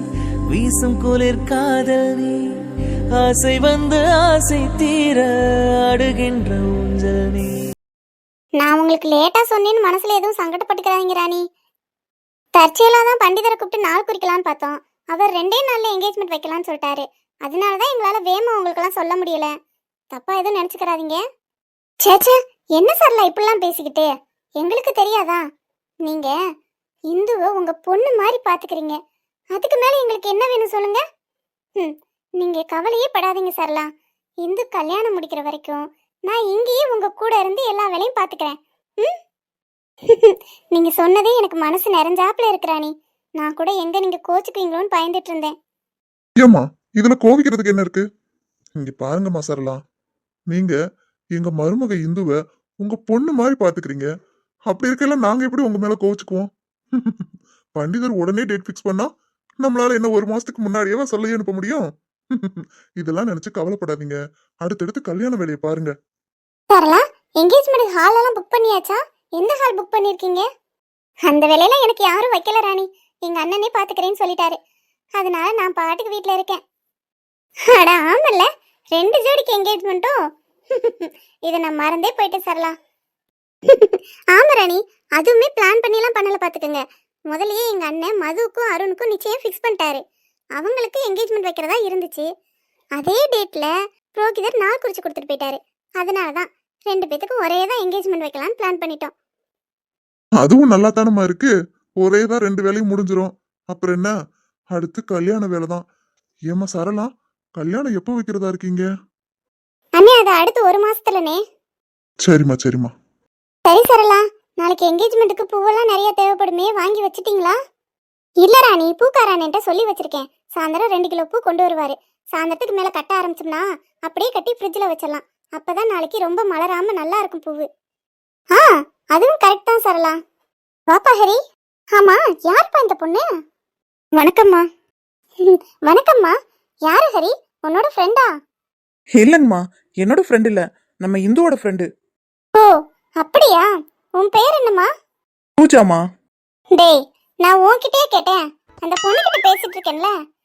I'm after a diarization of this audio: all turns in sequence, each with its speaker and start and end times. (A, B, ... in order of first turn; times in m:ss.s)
0:00.5-0:02.3 A
0:03.2-0:05.3 A
0:05.9-0:07.5 A
0:08.6-0:11.4 B
0:12.6-0:19.5 B
0:20.1-0:21.2 B
0:22.0-0:25.4 B
0:26.0-0:26.4 B
0:27.1-0:29.0 B
0:29.5-0:31.0 B
0:31.8-0:33.9 B
0:34.4-0:39.1 B
0:40.1-0:45.5 B
0:46.4-0:48.0 C
0:48.8-0:49.8 C
0:50.5-0:50.8 C
0:51.3-0:54.1 C
0:54.7-0:57.2 C
0:57.8-0:59.1 C
0:59.6-1:05.9 C
1:06.7-1:10.4 B
1:11.2-1:14.6 B
1:15.2-1:16.6 B
1:17.7-1:20.2 B
1:20.7-1:22.8 B
1:23.7-1:30.0 B
1:30.6-1:32.3 B
1:33.0-1:39.1 B
1:40.4-1:44.1 C
1:44.7-1:45.8 C
1:46.5-1:48.9 C
1:50.0-1:51.4 B
1:52.2-1:52.9 C
1:53.6-1:57.6 B
1:58.4-2:07.7 B
2:08.5-2:10.2 B
2:10.9-2:11.4 B
2:11.9-2:13.2 B
2:14.2-2:14.6 B
2:15.4-2:18.3 B
2:19.2-2:21.9 D
2:22.5-2:24.9 B
2:25.6-2:26.0 D
2:26.7-2:30.1 B